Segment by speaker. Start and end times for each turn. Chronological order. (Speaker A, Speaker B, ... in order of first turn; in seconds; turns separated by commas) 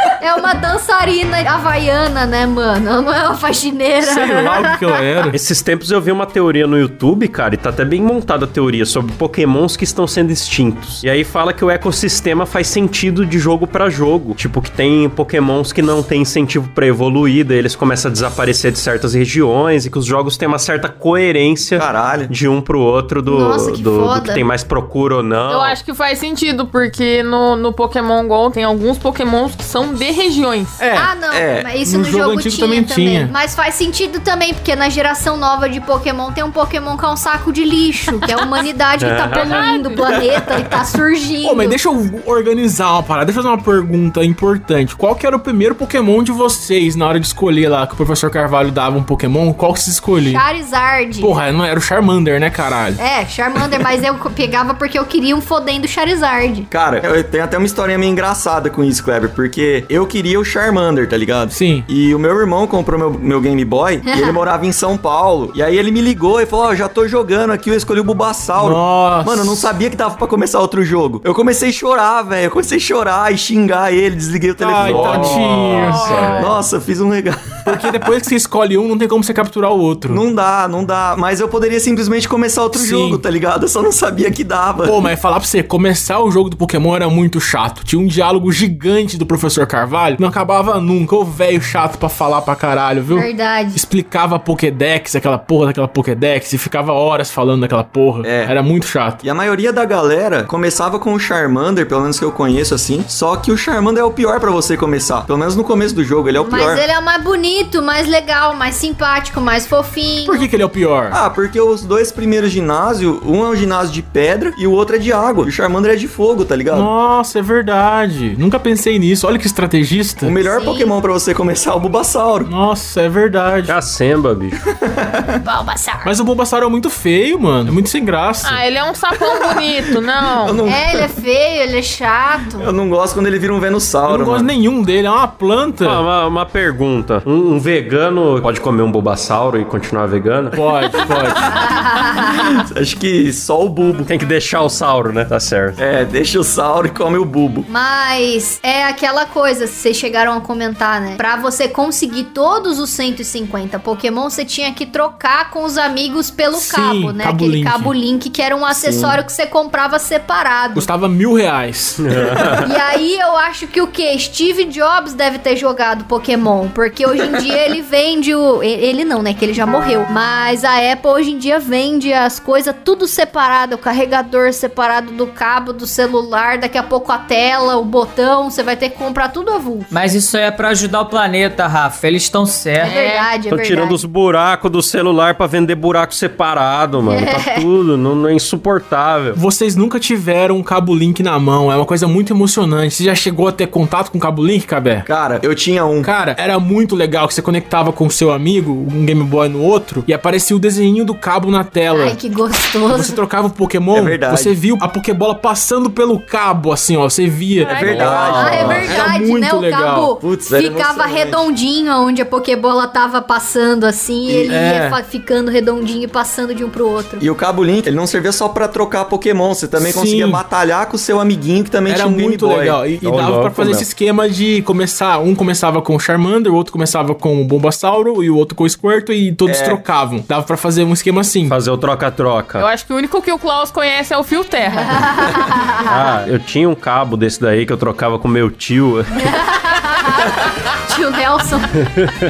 Speaker A: 0.2-5.0, Speaker B: 4.0-5.4, Speaker C: 5.3-25.8, Speaker D: 21.7-22.3, Speaker A: 23.2-24.4, Speaker E: 25.5-30.8, Speaker B: 30.8-31.1, Speaker A: 30.9-41.8, Speaker D: 31.3-31.7, Speaker B: 31.8-33.3, Speaker C: 39.0-39.7, Speaker E: 39.4-40.0, Speaker B: 41.4-50.4, Speaker A: 50.2-51.4, Speaker B: 51.2-53.0, Speaker A: 53.0-56.7, Speaker D: 56.7-77.9, Speaker B: 61.5-61.9, Speaker A: 64.1-64.4, Speaker B: 68.6-69.7, Speaker B: 74.6-76.3, Speaker C: 74.8-76.4, Speaker E: 76.0-76.5, Speaker B: 77.7-80.2, Speaker D: 80.1-85.0, Speaker B: 82.7-83.2, Speaker B: 84.8-99.2, Speaker A: 93.1-93.8, Speaker D: 98.2-98.5, Speaker D: 99.2-106.8, Speaker A: 106.4-110.5, Speaker B: 110.2-111.2, Speaker D: 111.1-116.9, Speaker B: 116.7-120.3, Speaker D: 120.2-122.5, Speaker A: 120.4-120.9, Speaker B: 122.5-123.7, Speaker C: 123.7-124.6, Speaker D: 124.8-125.3, Speaker A: 125.4-126.1, Speaker B: 126.0-128.6, Speaker E: 128.4-130.6, Speaker D: 130.4-131.1, Speaker A: 130.6-132.7, Speaker D: 132.6-134.5, Speaker B: 134.1-136.0, Speaker C: 135.8-140.6, Speaker B: 140.5-141.5, Speaker A: 141.4-142.6, Speaker D: 142.6-144.1, Speaker C: 144.1-145.8, Speaker D: 145.8-147.7, Speaker A: 147.7-160.9, Speaker B: 156.5-157.9, Speaker D: 158.7-159.2, Speaker B: 160.7-162.0, Speaker C: 162.0-162.6, Speaker A: 162.6-179.9, Speaker F: 179.9-182.9, Speaker E: 182.8-183.3, Speaker A: 182.8-184.0, Speaker C: 183.5-189.4, Speaker A: 187.0-187.6, Speaker B: 189.3-195.1, Speaker D: 195.0-196.1, Speaker B: 196.0-202.2, Speaker A: 201.9-203.2, Speaker B: 202.9-207.8, Speaker D: 203.9-204.6, Speaker E: 207.6-208.7, Speaker D: 207.8-209.0, Speaker C: 207.8-208.9, Speaker A: 208.3-217.2, Speaker B: 208.8-210.1, Speaker D: 210.2-211.5, Speaker D: 214.2-214.6, Speaker B: 214.5-215.0, Speaker D: 217.2-222.8, Speaker B: 219.8-220.4, Speaker B: 221.9-231.5, Speaker C: 223.0-223.8, Speaker D: 229.4-229.8, Speaker C: 231.5-232.7, Speaker E: 232.6-235.0, Speaker A: 234.7-236.1, Speaker C: 235.8-239.4, Speaker A: 239.2-241.8